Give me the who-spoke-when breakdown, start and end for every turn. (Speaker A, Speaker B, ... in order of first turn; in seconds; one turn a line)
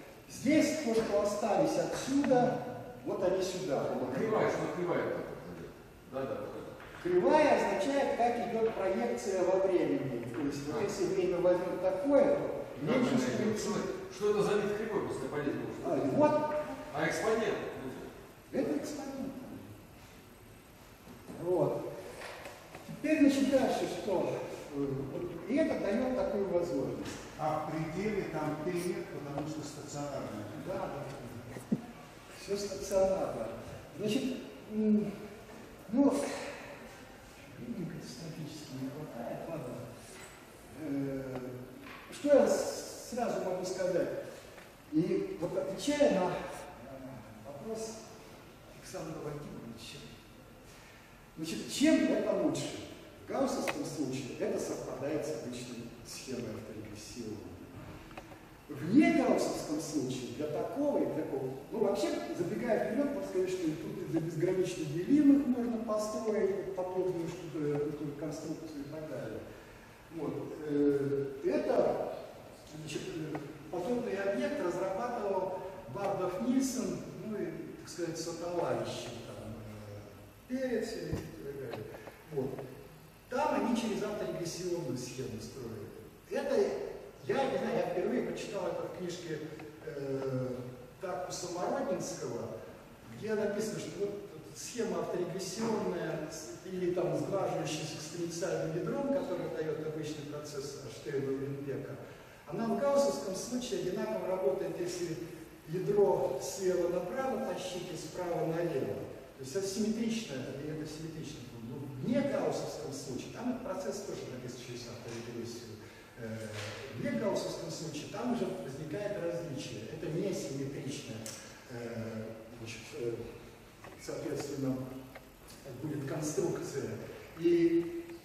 Speaker A: 0.3-4.5
Speaker B: 4.0-6.8
Speaker A: 7.0-13.9
Speaker B: 12.8-16.4
Speaker A: 15.8-16.6
Speaker B: 16.9-18.1
Speaker A: 18.5-19.7
Speaker A: 21.3-21.9
Speaker A: 22.8-27.3
Speaker C: 27.4-30.6
Speaker A: 30.5-31.5
Speaker A: 32.4-35.1
Speaker A: 35.9-36.6
Speaker A: 37.5-39.9
Speaker A: 40.7-41.5
Speaker A: 42.1-44.2
Speaker A: 44.9-48.0
Speaker A: 48.7-50.1
Speaker A: 51.4-57.8
Speaker A: 58.7-69.4
Speaker A: 70.1-72.1
Speaker A: 72.7-82.6
Speaker A: 83.3-92.5
Speaker A: 93.1-123.2
Speaker A: 123.9-124.8
Speaker A: 125.6-127.9